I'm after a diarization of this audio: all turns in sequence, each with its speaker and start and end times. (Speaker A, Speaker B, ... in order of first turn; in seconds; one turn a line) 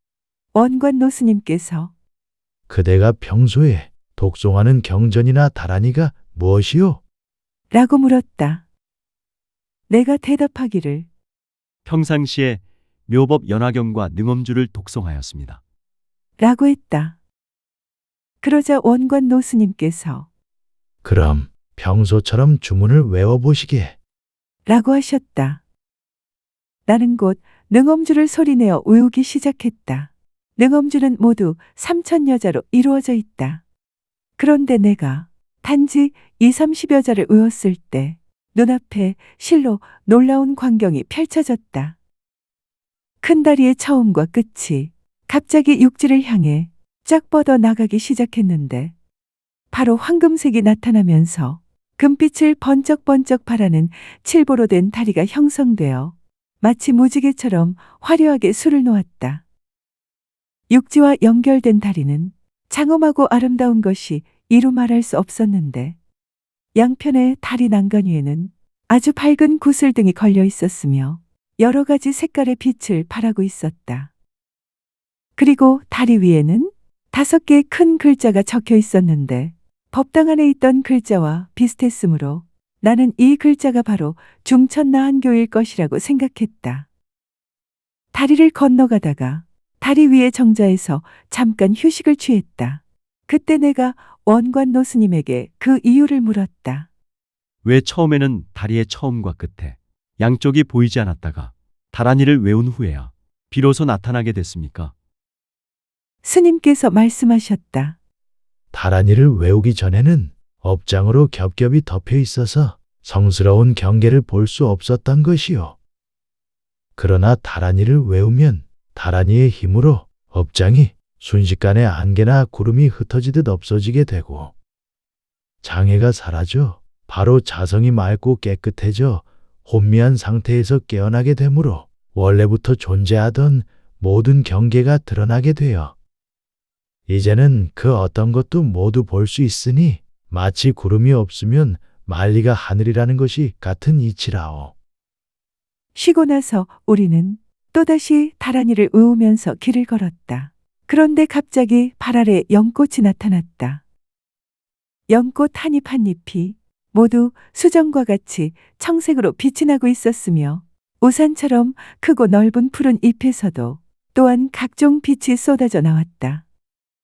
Speaker A: 0.5-1.9
Speaker B: 2.7-7.0
Speaker A: 7.7-8.6
Speaker A: 9.9-11.1
Speaker C: 11.8-15.6
Speaker A: 16.4-17.2
Speaker A: 18.4-20.3
Speaker B: 21.0-23.9
Speaker A: 24.7-25.6
Speaker A: 26.9-33.6
Speaker A: 34.4-42.0
Speaker A: 43.2-48.9
Speaker A: 49.7-59.4
Speaker A: 60.7-66.0
Speaker A: 66.8-74.1
Speaker A: 75.4-86.9
Speaker A: 88.1-96.9
Speaker C: 97.6-104.9
Speaker A: 106.2-108.0
Speaker B: 108.7-115.8
Speaker B: 117.0-124.5
Speaker B: 125.6-135.9
Speaker B: 137.1-144.7
Speaker A: 145.9-153.8
Speaker A: 155.1-166.4